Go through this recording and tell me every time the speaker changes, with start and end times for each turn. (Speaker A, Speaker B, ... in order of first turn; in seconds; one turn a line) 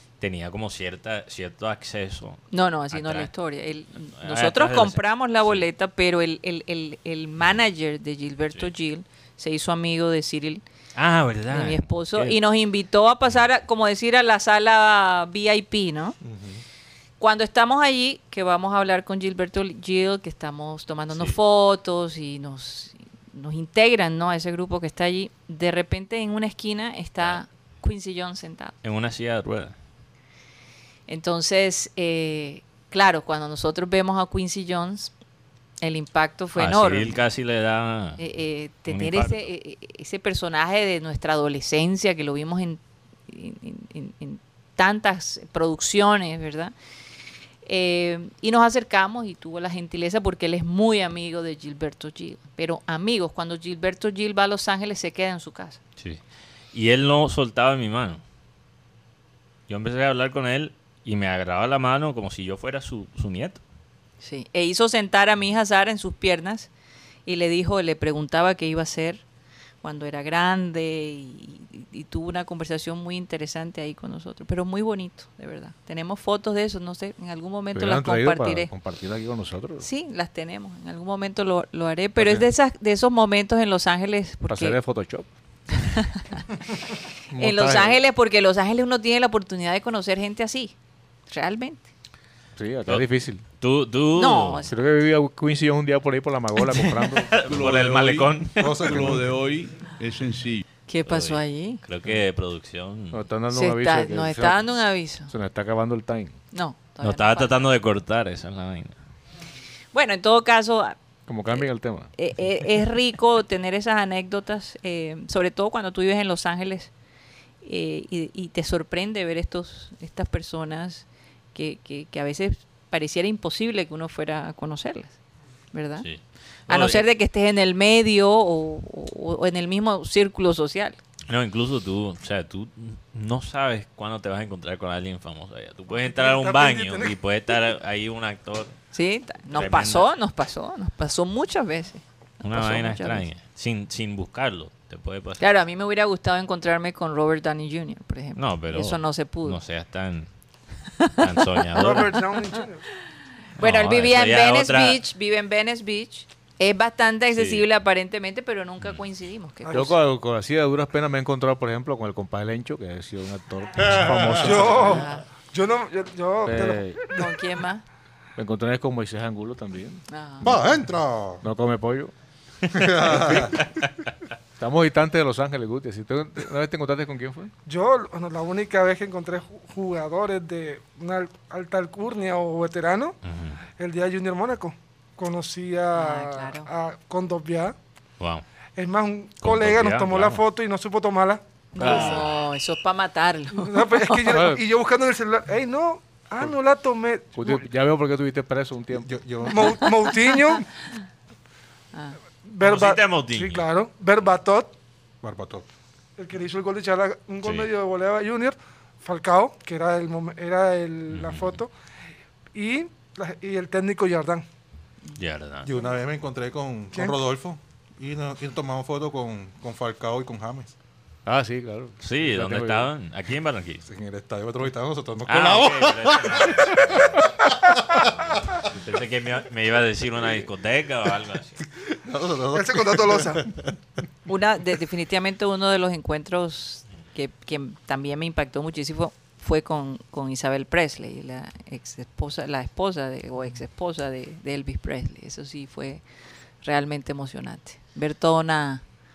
Speaker A: 0.2-3.3
Speaker B: 2.5-10.6
Speaker A: 4.2-5.7
Speaker A: 10.9-12.4
Speaker B: 11.5-16.2
Speaker C: 16.2-16.6
Speaker B: 17.2-28.7
Speaker A: 28.8-29.8
Speaker B: 31.1-35.1
Speaker B: 35.8-37.2
Speaker A: 36.6-38.2
Speaker B: 38.2-46.7
Speaker A: 38.9-39.4
Speaker B: 47.6-55.8
Speaker A: 56.7-58.2
Speaker A: 59.7-63.6
Speaker B: 64.2-66.7
Speaker B: 67.3-69.2
Speaker B: 69.8-78.7
Speaker D: 77.8-79.9
Speaker B: 79.8-84.8
Speaker D: 84.5-85.3
Speaker B: 85.7-86.5
Speaker D: 87.3-88.0
Speaker B: 87.3-90.8
Speaker B: 91.3-91.8
Speaker D: 92.6-93.4
Speaker A: 93.6-94.7
Speaker B: 94.2-94.7
Speaker D: 94.7-97.4
Speaker A: 96.6-99.2
Speaker E: 97.4-100.6
Speaker C: 98.6-99.2
Speaker B: 100.9-101.8
Speaker A: 101.1-103.2
Speaker D: 103.1-104.7
Speaker B: 103.5-105.3
Speaker D: 105.3-106.4
Speaker B: 106.5-107.6
Speaker A: 107.0-109.0
Speaker B: 109.9-111.0
Speaker D: 111.3-112.1
Speaker B: 111.5-116.9
Speaker B: 117.6-125.2
Speaker B: 125.7-126.1
Speaker A: 126.0-127.0
Speaker B: 126.7-131.0
Speaker A: 131.3-138.8
Speaker F: 135.9-137.2
Speaker B: 138.9-143.3
Speaker A: 139.5-140.1
Speaker A: 142.4-145.4
Speaker B: 145.4-149.6
Speaker A: 148.4-150.3
Speaker B: 151.0-152.0
Speaker A: 151.2-152.2
Speaker F: 151.7-152.9
Speaker B: 153.6-159.9
Speaker A: 153.6-155.0
Speaker A: 157.3-157.7
Speaker F: 159.7-159.9
Speaker D: 159.7-165.0
Speaker C: 163.8-164.7
Speaker F: 164.4-167.4
Speaker B: 164.7-165.2
Speaker D: 166.5-167.0
Speaker B: 167.1-167.8
Speaker D: 168.4-170.0
Speaker B: 170.1-170.6
Speaker C: 170.4-171.4
Speaker D: 171.4-172.1
Speaker C: 172.7-173.6
Speaker D: 172.7-173.6
Speaker D: 174.6-177.5
Speaker F: 177.7-183.2
Speaker A: 183.2-183.6
Speaker F: 183.8-187.8
Speaker B: 185.9-186.7
Speaker A: 188.2-188.4
Speaker F: 188.8-192.2
Speaker A: 189.4-190.4
Speaker B: 191.7-194.2
Speaker D: 191.8-192.2
Speaker F: 193.6-197.6
Speaker D: 194.3-194.6
Speaker D: 197.4-199.1
Speaker C: 198.9-199.8
Speaker F: 199.5-200.7
Speaker B: 199.7-200.9
Speaker F: 202.4-204.7
Speaker A: 202.6-203.7
Speaker C: 205.2-205.7
Speaker F: 206.2-211.7
Speaker A: 207.4-207.7
Speaker A: 211.1-211.6
Speaker F: 212.5-214.4
Speaker A: 215.2-215.7
Speaker C: 215.6-220.7
Speaker D: 221.3-222.9
Speaker A: 222.0-223.8
Speaker C: 223.8-228.5
Speaker A: 225.3-227.3
Speaker A: 228.2-231.7
Speaker C: 231.8-233.7
Speaker F: 232.5-233.4
Speaker B: 234.3-246.0
Speaker B: 246.6-248.8